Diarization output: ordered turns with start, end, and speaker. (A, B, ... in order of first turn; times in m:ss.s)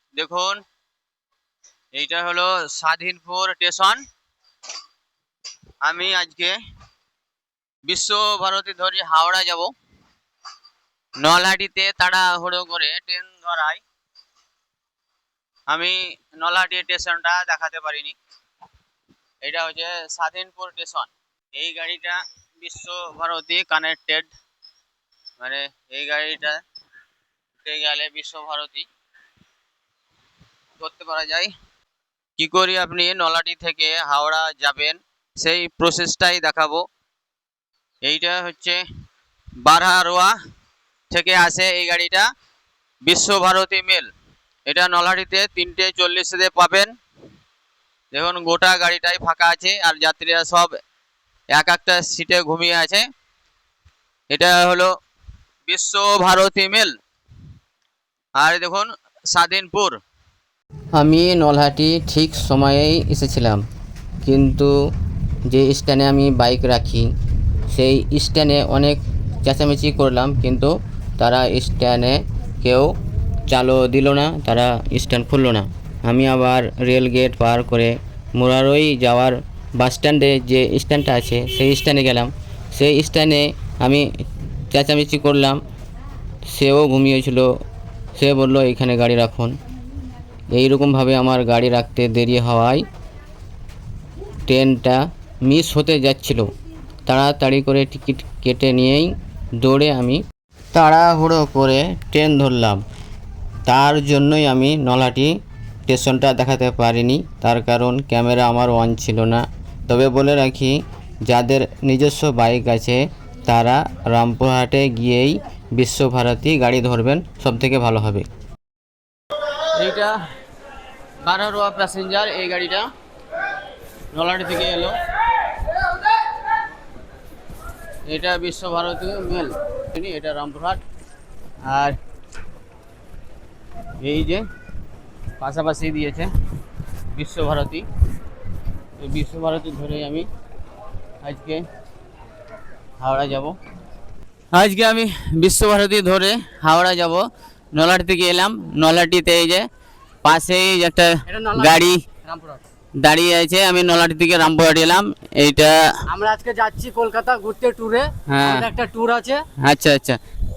0:00.1-0:00.6 A
0:01.9-0:04.0 A
0:05.8-0:06.6 A
0:07.9-0:09.7 A
0:11.2-0:13.8 A
0:15.7-0:18.2 A
0:19.4-0:24.3 A
0:25.4-0:26.6 A
0:27.6-0:28.9 A
0:30.8-0:31.5 A
0:32.4-0:36.8 A
0:38.0-0:38.8 A
0:39.6-0:40.4 A
0:41.1-0:42.3 A
0:43.0-0:44.1 A
0:44.6-0:46.9 A
0:48.1-0:50.7 A
0:51.5-0:53.1 A
0:54.3-0:54.9 A
0:55.7-0:57.0 A
0:58.4-1:00.0 A
1:01.0-1:03.6 B
1:04.2-1:04.7 B
1:05.5-1:07.1 B
1:07.7-1:12.9 B
1:13.5-1:24.0 B
1:24.7-1:25.6 B
1:26.5-1:27.5 B
1:28.2-1:29.5 B
1:30.6-1:32.8 B
1:34.5-1:36.5 B
1:37.1-1:39.1 B
1:39.6-1:40.2 B
1:40.8-1:41.8 A
1:40.9-1:42.8 B
1:43.7-1:45.3 B
1:43.9-1:45.3 A
1:45.9-1:50.8 B
1:47.8-1:48.9 A
1:51.3-1:58.2 B
1:59.7-2:00.2 A
2:01.2-2:02.9 A
2:04.1-2:05.0 A
2:08.1-2:10.8 A
2:11.6-2:12.0 A
2:14.0-2:14.4 A
2:15.4-2:16.3 A
2:17.1-2:17.9 A
2:19.0-2:20.3 A
2:21.2-2:21.6 A
2:23.0-2:23.6 A
2:24.5-2:29.7 A
2:30.2-2:32.0 A
2:31.3-2:32.6 C
2:33.0-2:35.8 A
2:36.1-2:39.4 C
2:38.3-2:38.7 A
2:39.6-2:40.2 A